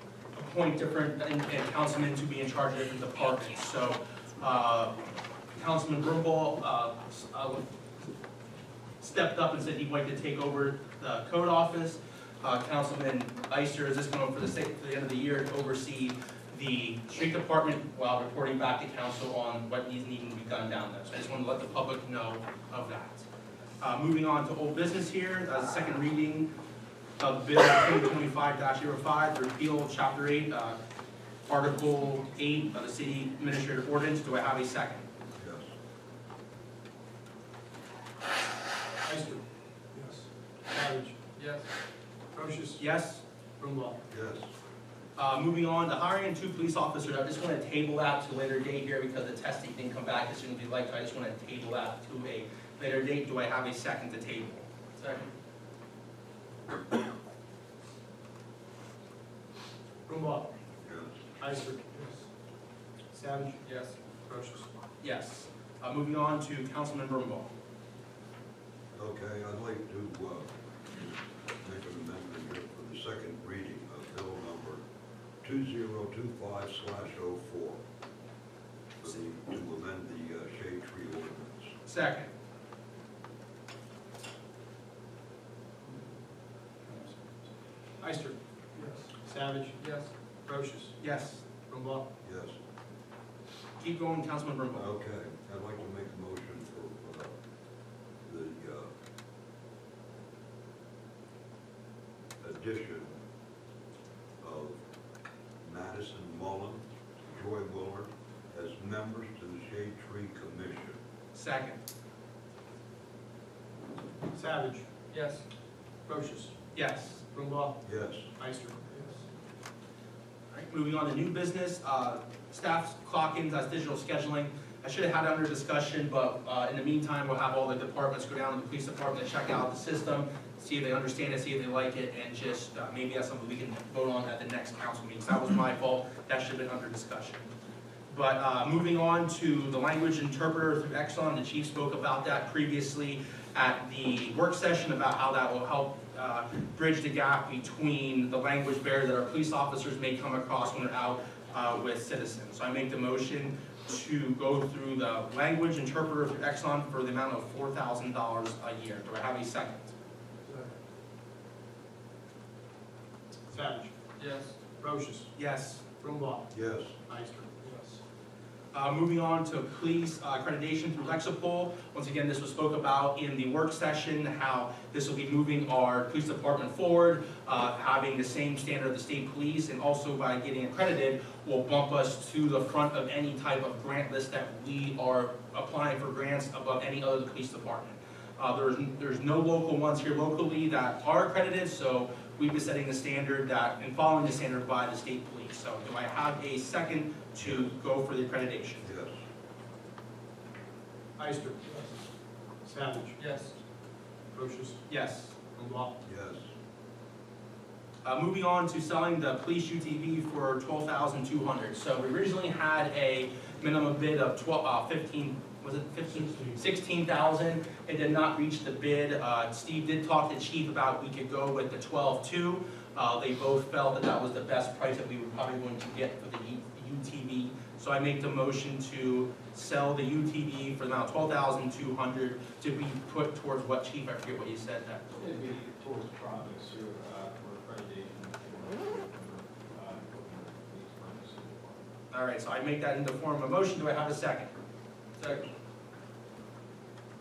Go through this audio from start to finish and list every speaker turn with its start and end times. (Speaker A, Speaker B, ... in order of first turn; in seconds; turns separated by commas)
Speaker A: 0.3-4.9, Speaker A: 5.5-7.7, Speaker A: 9.0-23.3, Speaker A: 23.8-26.5, Speaker A: 27.2-30.8, Speaker A: 31.5-35.1, Speaker B: 35.4-35.7, Speaker C: 39.0-41.2, Speaker D: 41.4-41.6, Speaker C: 42.3-42.8, Speaker A: 42.8-43.2, Speaker C: 43.6-44.0, Speaker B: 44.1-44.5, Speaker A: 45.2-55.3, Speaker C: 60.1-60.5, Speaker B: 60.8-61.1, Speaker C: 61.4-62.2, Speaker C: 63.1-63.6, Speaker D: 63.6-64.0, Speaker C: 64.3-64.7, Speaker A: 65.0-67.5, Speaker B: 68.9-71.1, Speaker B: 71.6-74.8, Speaker B: 75.4-77.8, Speaker B: 79.0-81.7, Speaker A: 81.9-82.3, Speaker C: 88.0-88.4, Speaker C: 89.0-91.0, Speaker D: 89.8-90.1, Speaker A: 91.0-91.5, Speaker C: 91.7-92.1, Speaker B: 92.2-92.6, Speaker A: 93.8-94.9, Speaker B: 94.7-97.3, Speaker B: 98.2-98.9, Speaker B: 102.4-103.2, Speaker B: 104.4-104.8, Speaker B: 105.6-111.0, Speaker A: 111.3-111.8, Speaker C: 114.3-114.8, Speaker D: 115.1-115.4, Speaker C: 116.1-116.5, Speaker A: 116.7-117.2, Speaker C: 117.3-117.8, Speaker B: 117.8-118.3, Speaker C: 118.4-119.3, Speaker A: 120.5-137.5, Speaker A: 138.1-159.9, Speaker C: 163.5-163.9, Speaker D: 164.2-164.5, Speaker C: 164.8-165.3, Speaker A: 165.4-165.8, Speaker C: 166.0-166.5, Speaker B: 166.5-167.0, Speaker C: 167.1-168.0, Speaker A: 168.7-198.9, Speaker B: 197.4-197.7, Speaker B: 198.8-199.2, Speaker C: 201.2-201.9, Speaker C: 202.6-203.2, Speaker D: 203.2-203.5, Speaker C: 204.3-204.8, Speaker A: 204.9-205.4, Speaker C: 205.5-205.9, Speaker B: 206.0-206.5, Speaker A: 208.0-235.1, Speaker E: 235.1-242.0, Speaker A: 242.1-244.5